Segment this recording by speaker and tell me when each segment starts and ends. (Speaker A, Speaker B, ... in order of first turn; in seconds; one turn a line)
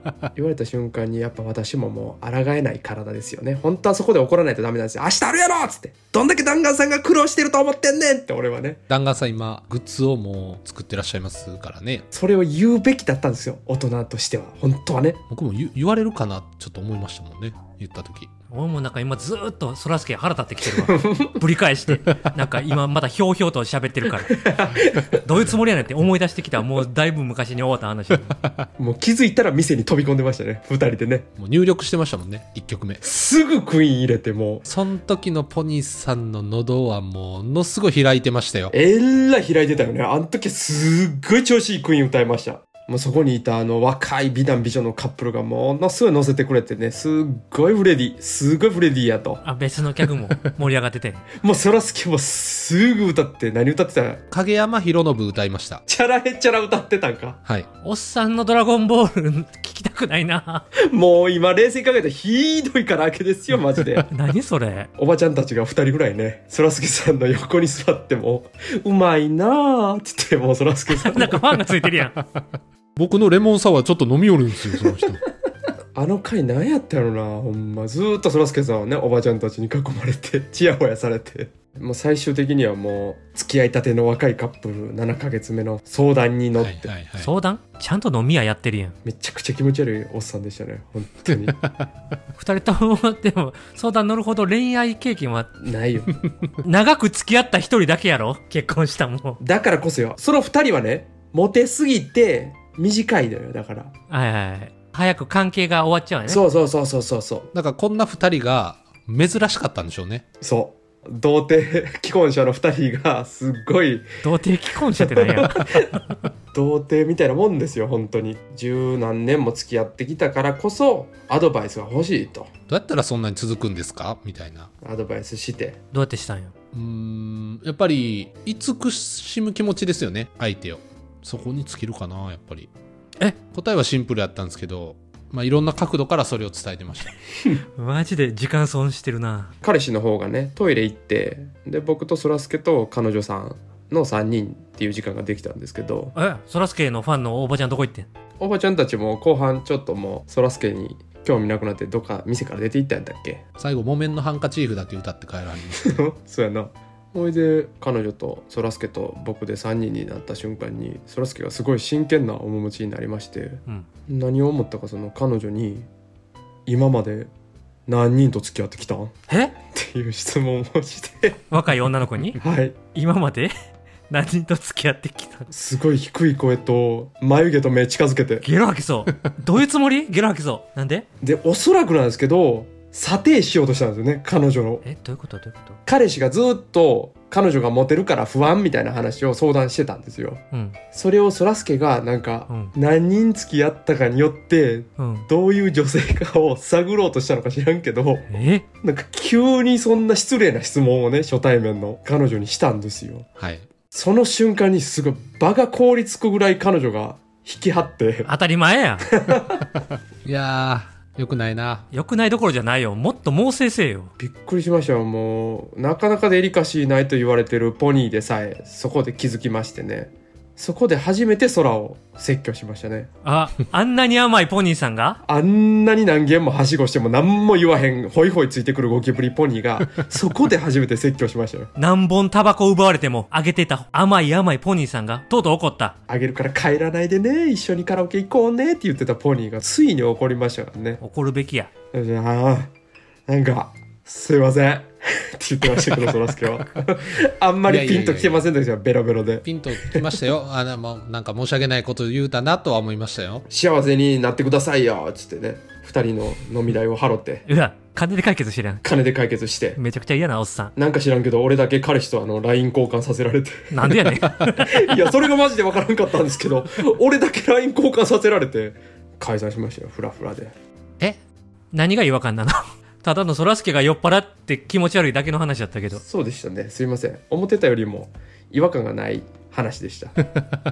Speaker A: 0.3-8.8
Speaker B: 8.9-12.1
Speaker A: 12.1-15.2
Speaker B: 15.3-18.3
Speaker C: 18.5-24.4
Speaker A: 20.8-21.4
Speaker A: 24.2-25.2
Speaker C: 25.1-28.3
Speaker A: 28.8-31.3
Speaker B: 31.4-33.0
Speaker A: 33.0-34.7
Speaker B: 34.6-38.7
Speaker A: 38.7-49.4
Speaker C: 49.4-51.3
Speaker A: 51.4-54.2
Speaker B: 54.3-55.8
Speaker A: 55.9-57.4
Speaker C: 57.8-60.6
Speaker A: 60.9-64.1
Speaker C: 64.1-64.9
Speaker A: 65.0-71.4
Speaker C: 70.9-72.2
Speaker B: 71.9-72.3
Speaker B: 73.0-75.2
Speaker A: 74.8-75.1
Speaker A: 76.0-86.9
Speaker B: 86.6-87.3
Speaker C: 87.2-89.0
Speaker A: 89.0-91.6
Speaker B: 91.6-91.9
Speaker C: 92.3-95.5
Speaker A: 95.6-96.2
Speaker C: 96.6-99.4
Speaker A: 99.4-103.9
Speaker C: 104.1-106.4
Speaker A: 106.3-107.5
Speaker B: 107.5-110.2
Speaker A: 110.4-114.1
Speaker C: 114.2-116.0
Speaker A: 115.0-116.0
Speaker A: 116.5-122.5
Speaker B: 122.7-124.7
Speaker A: 124.8-125.8
Speaker C: 125.9-126.5
Speaker B: 126.7-132.7
Speaker B: 133.5-137.2
Speaker C: 137.8-139.5
Speaker A: 139.6-146.1
Speaker C: 146.1-148.1
Speaker A: 148.4-153.4
Speaker B: 153.6-156.0
Speaker A: 155.8-165.9
Speaker A: 166.7-167.3
Speaker A: 167.9-169.1
Speaker C: 169.3-169.5
Speaker A: 169.7-171.4
Speaker C: 171.5-172.4
Speaker A: 172.4-172.8
Speaker C: 172.9-173.5
Speaker C: 174.1-175.5
Speaker A: 175.5-178.4
Speaker C: 178.4-181.1
Speaker A: 181.2-184.8
Speaker C: 184.8-185.8
Speaker A: 185.8-198.3
Speaker C: 190.5-190.8
Speaker C: 192.5-192.7
Speaker C: 195.0-195.3
Speaker C: 198.3-198.6
Speaker A: 198.8-203.3
Speaker B: 203.4-203.7
Speaker A: 203.9-208.3
Speaker C: 208.2-209.1
Speaker A: 209.1-209.7
Speaker B: 210.2-211.9
Speaker C: 211.9-214.1
Speaker A: 214.2-223.1
Speaker C: 223.2-225.2
Speaker A: 225.2-231.7
Speaker C: 231.8-235.9
Speaker A: 236.1-241.0
Speaker C: 241.0-241.7
Speaker A: 241.9-242.7
Speaker A: 243.3-250.2
Speaker B: 247.7-248.5
Speaker B: 249.4-253.4
Speaker A: 253.5-257.4
Speaker C: 257.5-258.8
Speaker A: 258.8-259.8
Speaker C: 259.8-260.7
Speaker A: 260.8-270.5
Speaker C: 263.7-265.1
Speaker C: 271.7-276.0
Speaker A: 276.0-280.1